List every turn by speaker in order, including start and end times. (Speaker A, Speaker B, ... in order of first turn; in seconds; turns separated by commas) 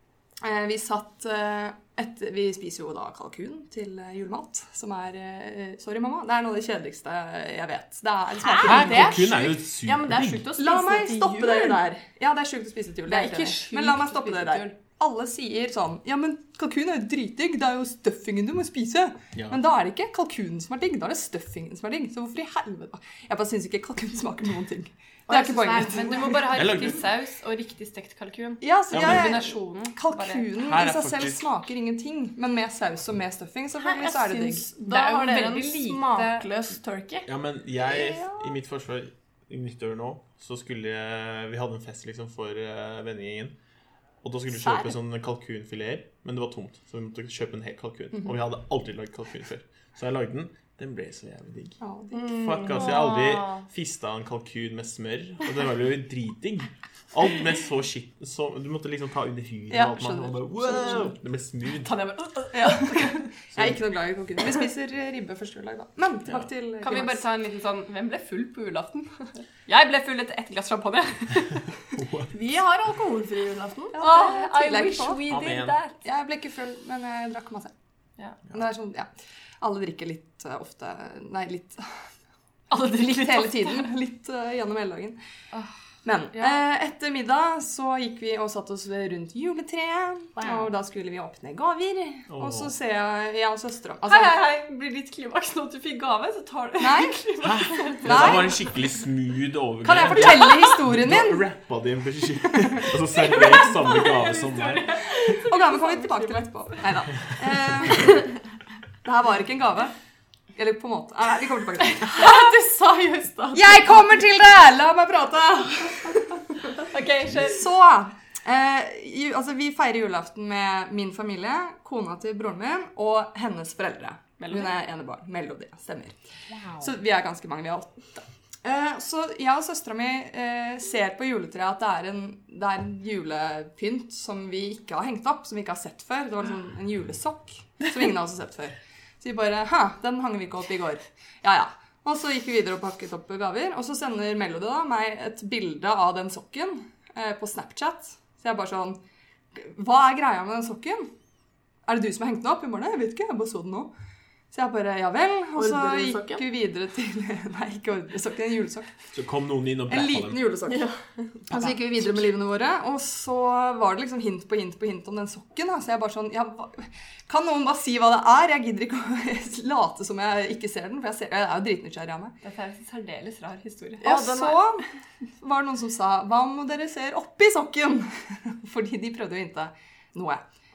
Speaker A: 0.4-9.3, Speaker B: 8.4-11.8, Speaker C: 8.6-10.5, Speaker A: 10.6-26.4, Speaker D: 13.1-14.7, Speaker C: 19.3-19.6, Speaker B: 25.3-26.4, Speaker D: 25.9-30.4, Speaker C: 26.5-27.0, Speaker A: 28.6-34.7, Speaker C: 28.9-29.4, Speaker C: 30.6-31.5, Speaker B: 33.8-37.3, Speaker D: 34.8-36.5, Speaker C: 37.2-43.5, Speaker A: 37.8-38.5, Speaker C: 44.2-61.9, Speaker A: 51.8-52.4, Speaker B: 52.1-52.9, Speaker D: 52.8-53.6, Speaker A: 59.7-61.1, Speaker D: 61.8-63.3, Speaker A: 62.5-67.2, Speaker D: 66.8-71.7, Speaker C: 72.0-72.3, Speaker B: 72.3-74.0, Speaker A: 73.9-75.2, Speaker D: 73.9-75.9, Speaker C: 75.3-75.8, Speaker A: 76.0-77.7, Speaker A: 78.5-79.1, Speaker A: 79.6-81.8, Speaker D: 82.7-83.9, Speaker A: 83.1-85.2, Speaker A: 86.0-94.4, Speaker D: 86.3-86.6, Speaker D: 90.4-90.6, Speaker C: 92.3-92.7, Speaker D: 94.0-98.5, Speaker A: 96.8-97.2, Speaker C: 97.4-104.9, Speaker A: 98.0-98.6, Speaker A: 99.8-101.5, Speaker D: 103.5-106.8, Speaker A: 105.2-108.3, Speaker A: 109.0-109.9, Speaker A: 110.5-112.5, Speaker B: 112.0-113.9, Speaker A: 113.5-126.2, Speaker D: 116.8-117.6, Speaker D: 124.4-124.8, Speaker A: 126.7-149.0, Speaker A: 149.5-151.1, Speaker A: 151.9-153.9, Speaker A: 154.5-159.1, Speaker B: 155.6-156.4, Speaker C: 159.1-160.4, Speaker A: 159.9-160.9, Speaker B: 160.7-160.9, Speaker A: 161.5-172.3, Speaker D: 172.4-174.2, Speaker B: 174.0-174.7, Speaker A: 174.0-174.8, Speaker A: 175.4-180.4